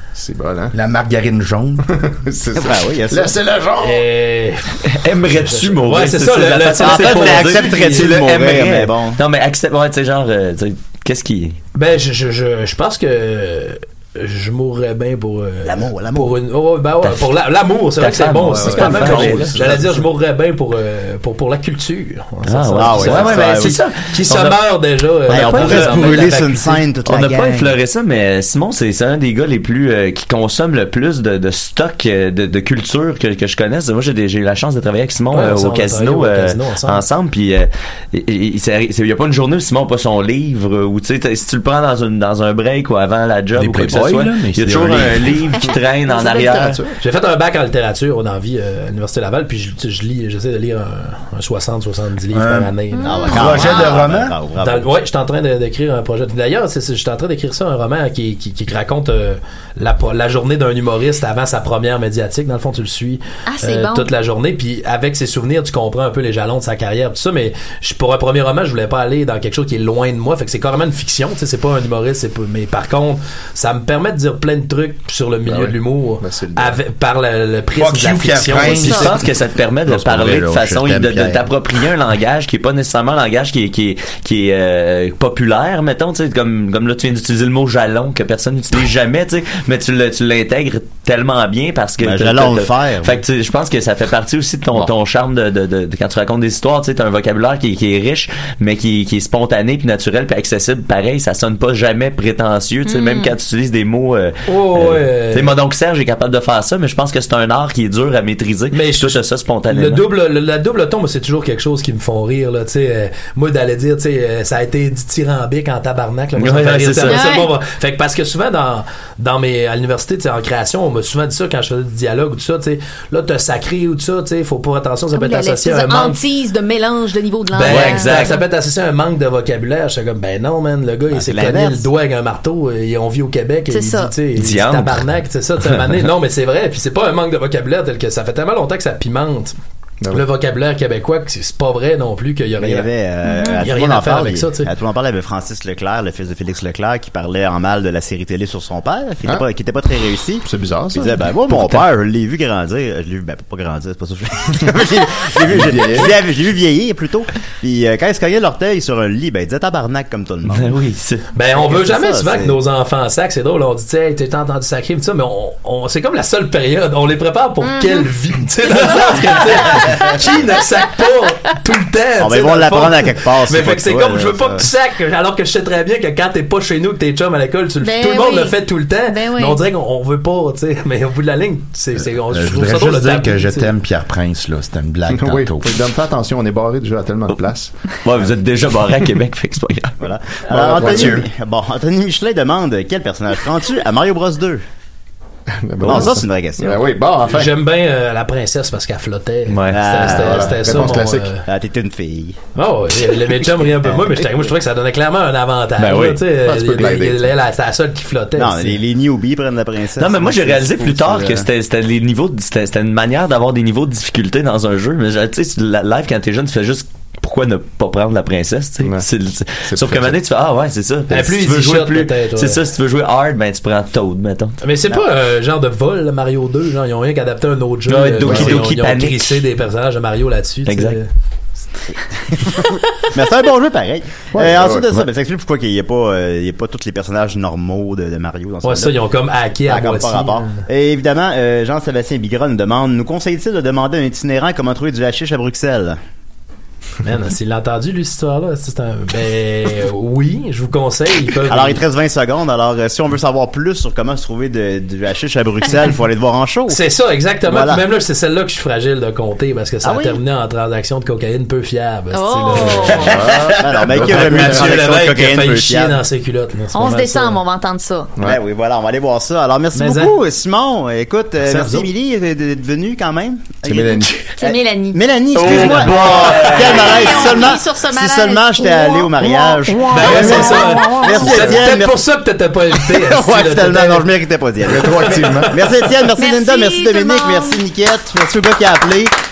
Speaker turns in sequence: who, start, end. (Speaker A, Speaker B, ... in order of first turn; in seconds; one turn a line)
Speaker A: 0.1-0.8
Speaker B: 0.7-1.9
Speaker A: 2.0-4.0
Speaker C: 2.5-3.4
Speaker D: 3.8-8.1
Speaker E: 5.0-11.6
Speaker C: 6.8-9.2
Speaker D: 11.8-26.8
Speaker C: 15.6-16.4
Speaker E: 18.0-19.6
Speaker C: 18.5-20.0
Speaker E: 22.5-24.6
Speaker C: 22.8-23.8
Speaker C: 25.3-27.8
Speaker E: 25.3-26.2
Speaker E: 27.1-46.8
Speaker D: 35.3-37.0
Speaker B: 43.6-45.3
Speaker F: 45.6-46.7
Speaker A: 46.4-46.9
Speaker D: 47.0-53.8
Speaker B: 52.3-52.7
Speaker F: 52.9-54.0
Speaker C: 53.0-54.9
Speaker B: 53.2-54.4
Speaker D: 54.6-79.0
Speaker F: 63.5-64.1
Speaker A: 75.5-76.8
Speaker B: 77.8-79.3
Speaker E: 78.7-110.1
Speaker B: 79.9-81.4
Speaker C: 92.0-93.2
Speaker F: 102.8-103.3
Speaker D: 104.5-105.5
Speaker D: 108.7-126.2
Speaker E: 116.4-117.4
Speaker F: 117.0-117.5
Speaker F: 125.1-128.4
Speaker D: 127.5-139.6
Speaker E: 127.6-128.4
Speaker C: 131.1-131.9
Speaker F: 133.7-134.1
Speaker E: 134.3-135.1
Speaker D: 140.1-142.9
Speaker C: 142.6-160.8
Speaker F: 143.2-143.6
Speaker D: 143.4-144.7
Speaker A: 150.4-151.3
Speaker A: 155.4-156.2
Speaker E: 160.5-161.2
Speaker D: 161.3-183.7
Speaker C: 161.5-162.6
Speaker F: 167.6-168.1
Speaker F: 168.7-170.1
Speaker C: 172.2-174.7
Speaker F: 177.8-179.6
Speaker B: 182.3-185.8
Speaker A: 185.1-187.7
Speaker E: 188.0-190.0
Speaker C: 190.0-194.6
Speaker A: 190.5-191.2
Speaker E: 190.8-191.2
Speaker A: 195.5-197.6
Speaker C: 195.8-196.8
Speaker D: 197.2-201.4
Speaker E: 199.5-199.8
Speaker C: 199.7-202.4
Speaker A: 200.1-201.3
Speaker D: 202.6-208.8
Speaker E: 205.8-206.2
Speaker A: 206.4-207.3
Speaker C: 208.4-211.5
Speaker E: 210.0-224.6
Speaker A: 219.7-220.2
Speaker D: 221.1-222.6
Speaker D: 224.6-231.1
Speaker E: 227.9-229.4
Speaker A: 228.2-228.7
Speaker E: 230.7-231.0
Speaker C: 232.3-239.0
Speaker A: 234.3-235.1
Speaker D: 238.6-240.6
Speaker C: 239.7-246.0
Speaker D: 247.0-251.8
Speaker C: 251.5-256.8
Speaker D: 256.7-263.1
Speaker C: 257.4-257.8
Speaker C: 259.8-260.2
Speaker F: 262.1-263.2
Speaker A: 262.8-264.9
Speaker C: 262.9-266.0
Speaker D: 264.0-267.4
Speaker F: 266.7-268.1
Speaker C: 268.2-282.0
Speaker D: 269.7-270.1
Speaker D: 271.4-271.9
Speaker A: 273.6-274.3
Speaker F: 274.4-275.0
Speaker E: 275.3-277.3
Speaker F: 275.7-281.3
Speaker D: 279.9-284.1
Speaker A: 280.0-280.5
Speaker C: 282.8-289.1
Speaker A: 284.6-285.6
Speaker F: 286.2-287.6